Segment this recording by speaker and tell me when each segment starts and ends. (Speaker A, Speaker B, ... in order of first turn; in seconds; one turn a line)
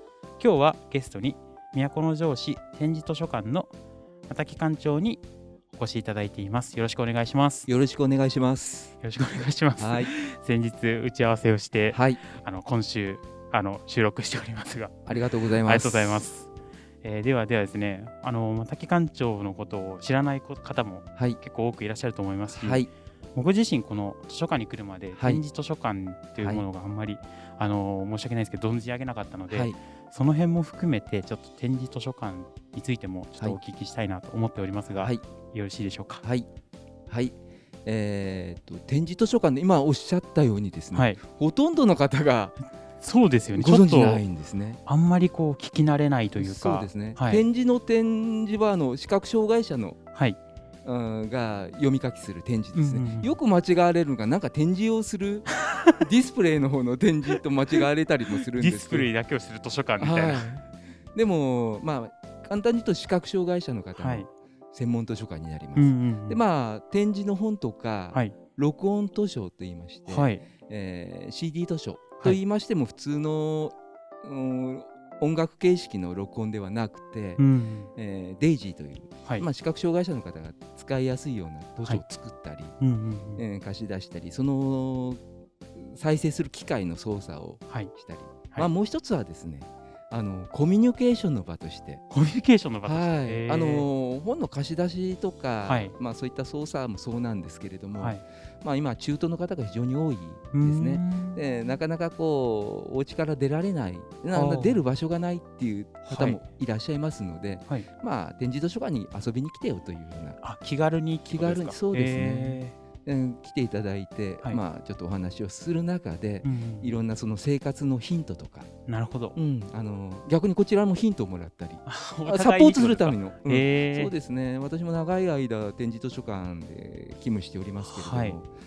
Speaker A: 0.4-3.7
Speaker A: 4.3-7.7
Speaker B: 7.7-9.0
Speaker A: 9.0-16.5
Speaker B: 9.8-10.1
Speaker B: 11.9-12.2
Speaker B: 15.1-16.3
Speaker A: 17.0-36.2
Speaker B: 22.5-22.9
Speaker B: 25.1-25.4
Speaker B: 26.4-26.6
Speaker B: 29.5-29.8
Speaker B: 35.0-35.2
Speaker B: 37.1-42.6
Speaker A: 40.9-41.2
Speaker A: 43.0-44.2
Speaker B: 43.5-44.8
Speaker A: 44.9-47.4
Speaker B: 46.4-50.0
Speaker B: 50.8-59.1
Speaker A: 52.7-53.4
Speaker A: 58.5-60.5
Speaker B: 60.0-77.4
Speaker A: 64.0-64.3
Speaker A: 65.7-66.4
Speaker A: 70.0-70.4
Speaker A: 77.4-77.9
Speaker B: 78.0-82.8
Speaker A: 82.8-83.4
Speaker B: 83.4-85.2
Speaker B: 85.7-92.0
Speaker A: 92.1-93.9
Speaker B: 92.8-110.4
Speaker A: 95.7-96.0
Speaker A: 97.9-98.2
Speaker A: 100.5-101.4
Speaker A: 104.3-104.8
Speaker A: 106.1-106.4
Speaker A: 110.4-112.8
Speaker B: 111.3-118.7
Speaker A: 116.4-117.0
Speaker A: 118.9-119.4
Speaker B: 119.3-128.5
Speaker A: 121.8-124.1
Speaker A: 127.8-128.4